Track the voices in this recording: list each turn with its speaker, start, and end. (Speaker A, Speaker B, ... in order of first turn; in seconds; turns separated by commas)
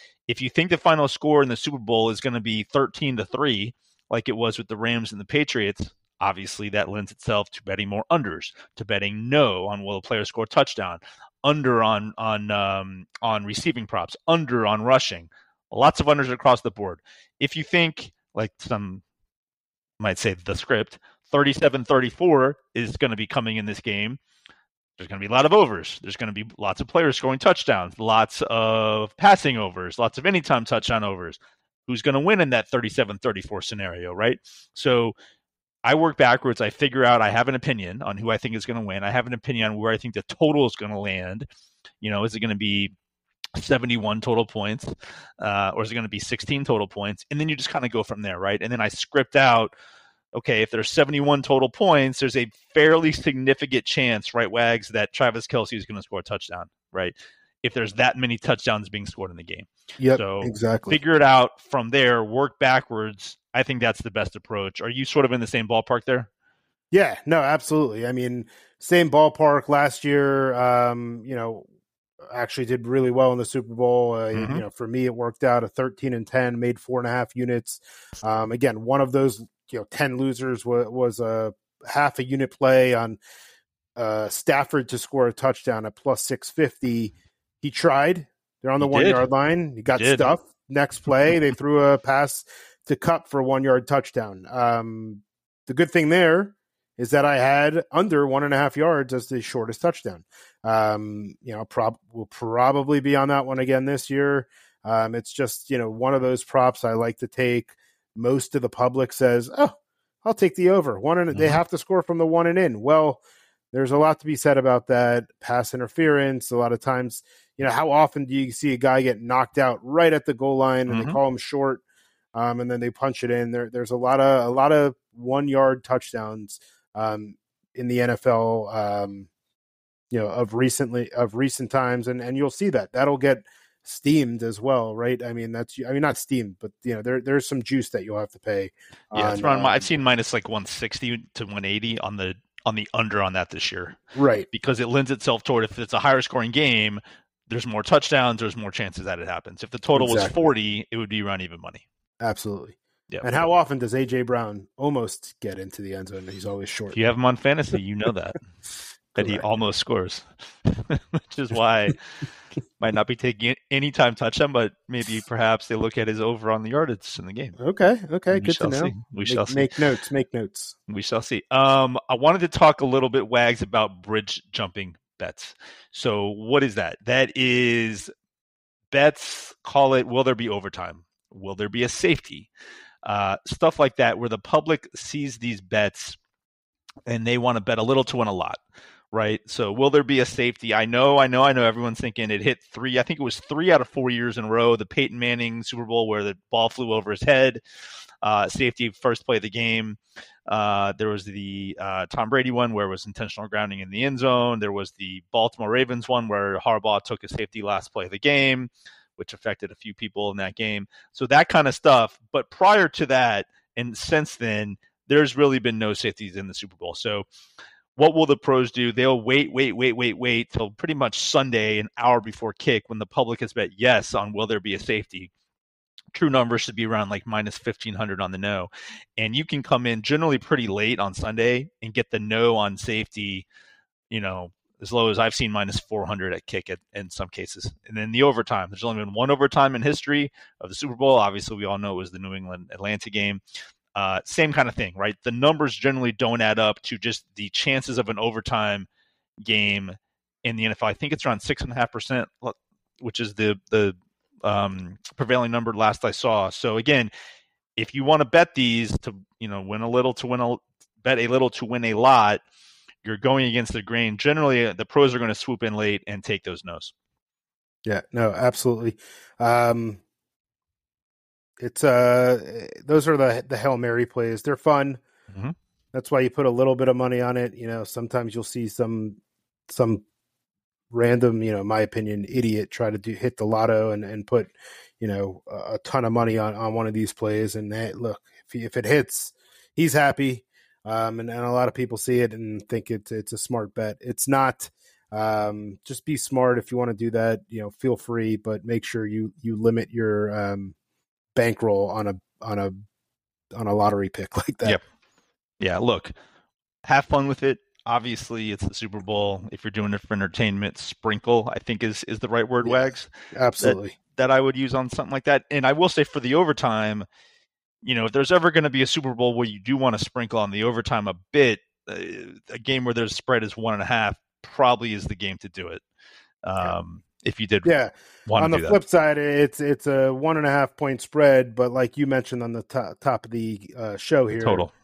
Speaker A: 0.3-19.0, Speaker A: 20.0-24.2, Speaker A: 25.0-35.1, Speaker A: 35.8-41.5, Speaker A: 42.0-42.9, Speaker A: 43.6-49.7, Speaker A: 50.3-66.3, Speaker B: 60.0-61.0, Speaker B: 66.9-71.7, Speaker B: 72.2-83.2, Speaker A: 74.3-74.6, Speaker B: 84.0-121.8, Speaker A: 88.8-89.3, Speaker A: 90.0-90.3, Speaker A: 111.3-111.6, Speaker A: 120.9-121.2, Speaker B: 122.3-129.3, Speaker B: 130.1-139.9, Speaker A: 139.1-144.0, Speaker B: 144.1-144.5, Speaker A: 144.5-151.8, Speaker B: 150.0-150.4, Speaker B: 152.2-157.0, Speaker A: 156.9-158.4, Speaker A: 159.1-162.0, Speaker B: 159.2-159.4, Speaker A: 162.8-167.6, Speaker B: 167.6-170.8, Speaker A: 168.3-169.7, Speaker A: 170.9-178.1, Speaker A: 178.9-182.5, Speaker A: 183.1-186.2, Speaker A: 187.1-188.6, Speaker A: 189.1-197.6, Speaker A: 198.2-217.2, Speaker A: 218.0-225.3, Speaker A: 226.1-233.5, Speaker A: 234.1-243.4, Speaker A: 244.0-248.9, Speaker A: 249.4-257.1, Speaker A: 257.8-262.4, Speaker A: 263.0-266.9, Speaker B: 267.9-270.0, Speaker B: 271.6-275.0, Speaker B: 275.9-280.0, Speaker B: 280.9-300.7, Speaker B: 301.4-302.8, Speaker B: 303.5-304.8, Speaker A: 305.6-306.1, Speaker A: 306.9-317.1, Speaker B: 313.3-313.9, Speaker A: 317.8-325.8, Speaker A: 326.4-327.7, Speaker B: 327.6-334.7, Speaker A: 328.3-328.8, Speaker A: 334.4-334.7